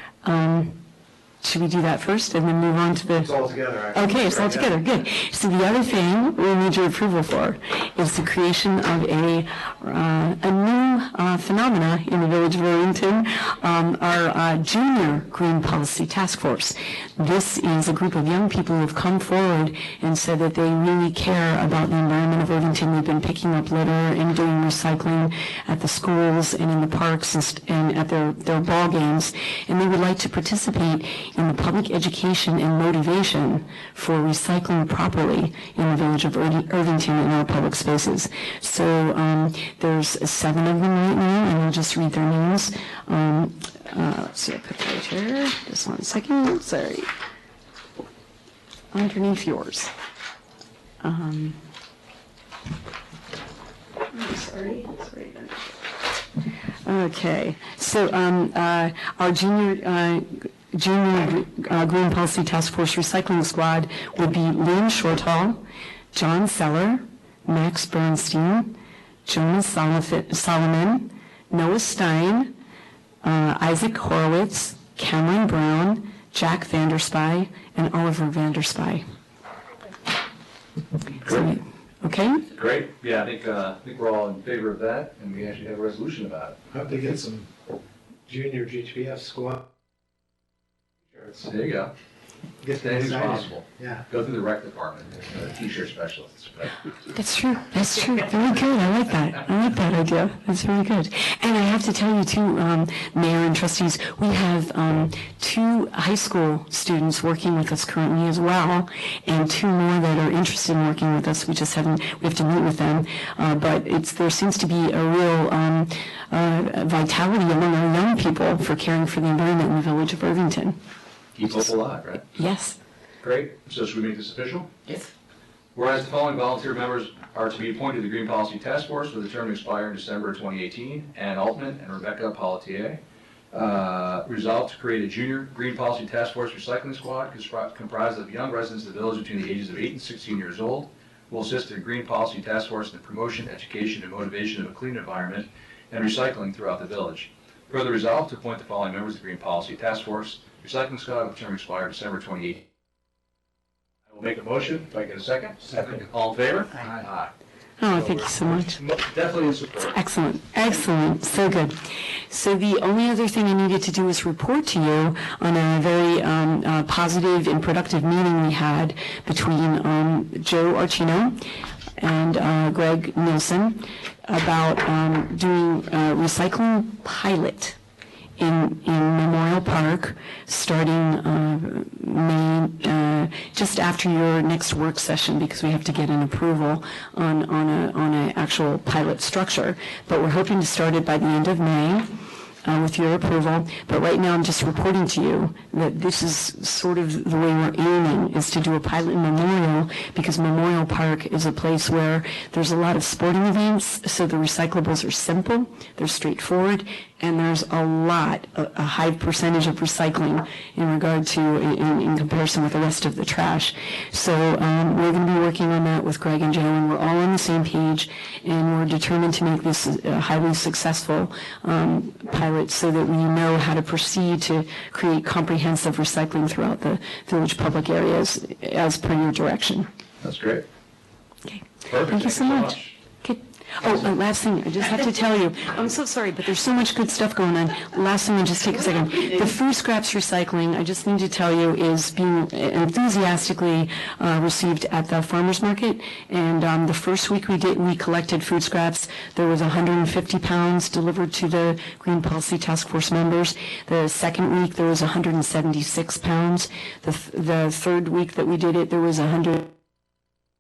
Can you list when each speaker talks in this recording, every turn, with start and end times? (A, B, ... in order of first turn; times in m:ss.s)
0:00.2-0:00.8 A
0:01.4-0:03.4 A
0:03.3-0:04.5 B
0:03.9-0:47.1 A
0:48.9-0:49.9 A
0:51.0-0:51.6 A
0:54.1-0:55.7 A
0:56.8-1:12.6 A
1:13.2-1:19.0 A
1:21.2-1:22.5 A
1:21.2-1:21.5 C
1:22.5-1:26.6 C
1:26.7-1:27.5 B
1:28.3-1:29.6 B
1:31.2-1:31.9 C
1:32.6-1:34.0 B
1:32.8-1:36.8 C
1:37.1-2:00.8 A
2:01.4-2:02.3 C
2:02.4-2:02.8 A
2:03.2-2:04.7 C
2:05.8-2:13.0 C
2:13.5-2:32.7 C
2:34.1-2:37.3 C
2:37.8-2:38.8 A
2:37.9-2:40.0 C
2:39.9-2:51.5 A
2:52.0-2:57.8 A
2:58.4-3:12.1 A
3:12.6-3:49.9 A
3:50.2-3:50.6 C
3:51.4-4:19.8 A
3:51.9-3:53.0 C